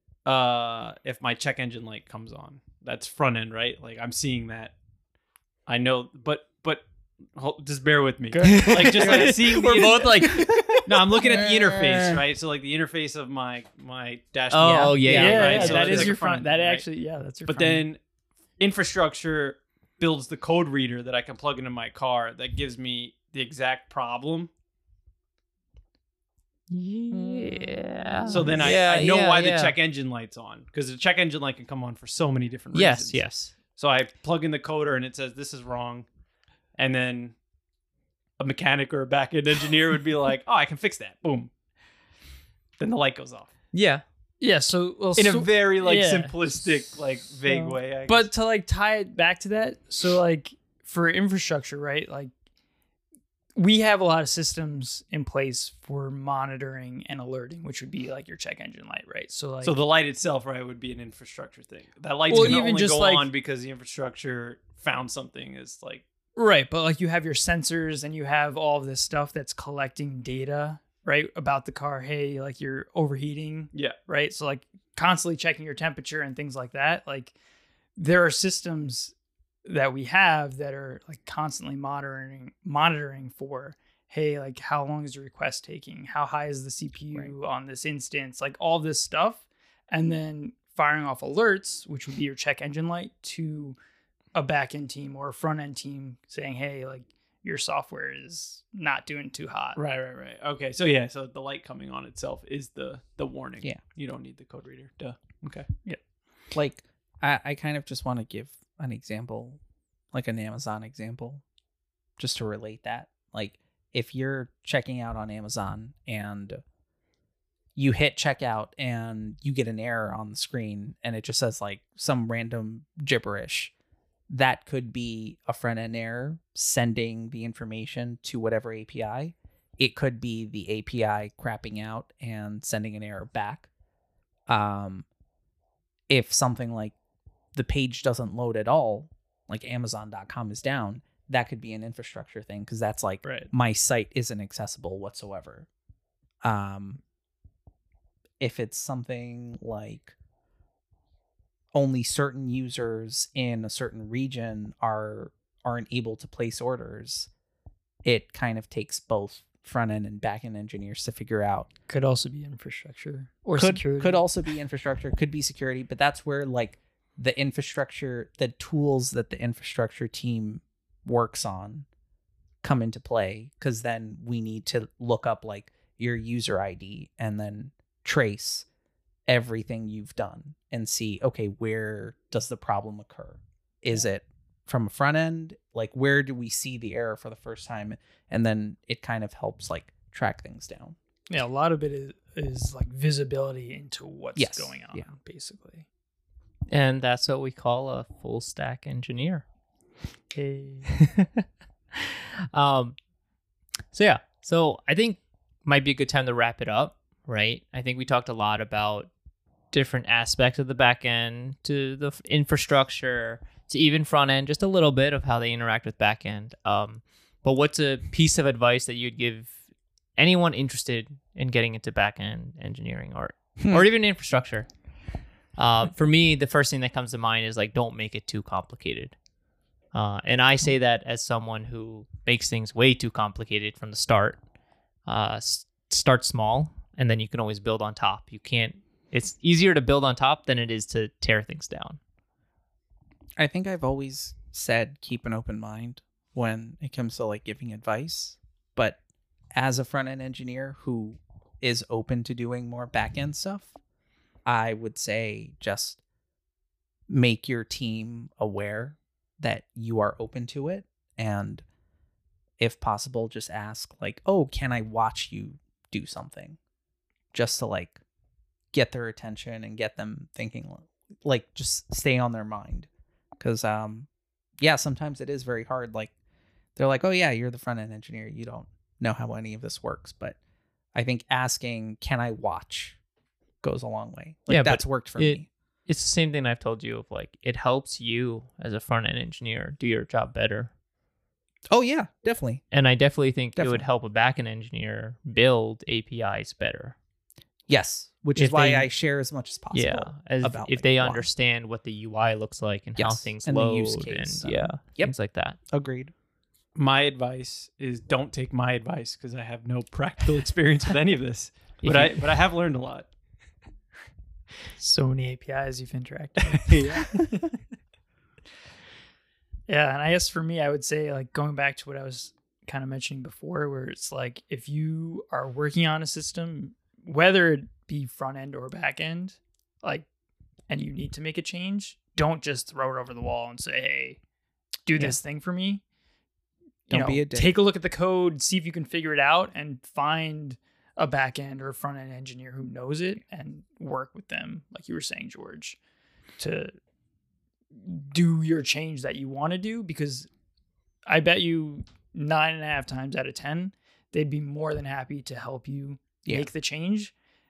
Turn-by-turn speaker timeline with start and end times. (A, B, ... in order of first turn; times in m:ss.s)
0:00.2-0:04.8 A
0:05.7-0:10.3 A
0:08.3-0:10.8 B
0:08.9-0:10.8 C
0:10.8-0:16.8 A
0:14.5-0:16.1 C
0:15.0-0:15.7 D
0:15.1-0:17.9 B
0:17.5-0:18.0 A
0:18.6-0:24.5 A
0:26.7-0:29.8 C
0:28.3-0:36.1 A
0:32.7-0:33.5 C
0:36.8-0:37.4 A
0:38.4-0:41.5 A
0:42.8-0:43.5 A
0:43.7-0:44.0 C
0:44.4-0:46.4 B
0:45.1-0:48.3 A
0:47.4-0:52.3 B
0:53.6-0:59.8 B
0:59.6-1:06.0 A
1:02.3-1:03.3 B
1:06.4-1:17.3 B
1:18.0-1:19.1 B
1:19.6-1:33.8 B
1:34.4-1:39.8 B
1:39.8-1:45.7 A
1:46.5-1:49.6 D
1:50.1-1:51.4 D
1:52.2-1:56.6 D
1:57.8-2:03.7 D
2:04.3-2:13.7 D
2:14.5-2:15.1 D
2:16.1-2:17.0 D
2:17.6-2:25.7 D
2:23.2-2:23.5 B
2:26.4-2:27.0 D
2:28.4-2:30.1 D
2:31.7-2:37.3 D
2:38.0-2:41.7 D
2:41.9-2:44.2 B
2:43.6-2:51.9 D
2:52.6-2:58.7 D
2:59.3-3:11.0 D
3:11.3-3:15.9 B
3:14.4-3:15.1 D
3:16.7-3:19.4 C
3:20.3-3:20.9 B
3:21.0-3:21.4 C
3:22.5-3:23.0 C
3:23.9-3:29.1 C
3:29.7-3:39.6 C
3:40.2-3:44.7 C
3:45.6-3:49.1 C
3:49.9-3:54.4 C
3:55.1-4:02.0 C
4:03.4-4:09.0 D
4:09.5-4:13.8 D
4:14.4-4:16.0 D
4:17.1-4:21.6 D
4:22.6-4:26.6 D
4:27.3-4:28.0 D
4:28.7-4:32.9 D
4:33.4-4:34.1 D
4:34.6-4:36.1 D
4:36.8-4:40.4 D
4:40.9-4:43.0 D
4:43.6-4:45.4 D
4:44.5-4:50.7 C
4:51.7-4:52.6 D
4:52.7-4:57.0 C
4:53.6-4:53.8 D
4:57.7-5:01.3 D
4:58.4-4:58.9 C
4:59.7-5:05.6 C
5:03.0-5:05.1 D
5:05.7-5:06.1 D
5:06.8-5:13.1 A
5:11.8-5:12.2 C
5:14.8-5:17.6 B
5:16.7-5:17.1 A
5:19.7-5:30.1 B
5:30.7-5:34.2 B
5:34.9-5:35.8 B
5:36.9-5:45.8 B
5:36.9-5:37.6 D
5:46.4-5:46.7 B
5:47.8-5:50.3 B
5:51.1-5:57.1 B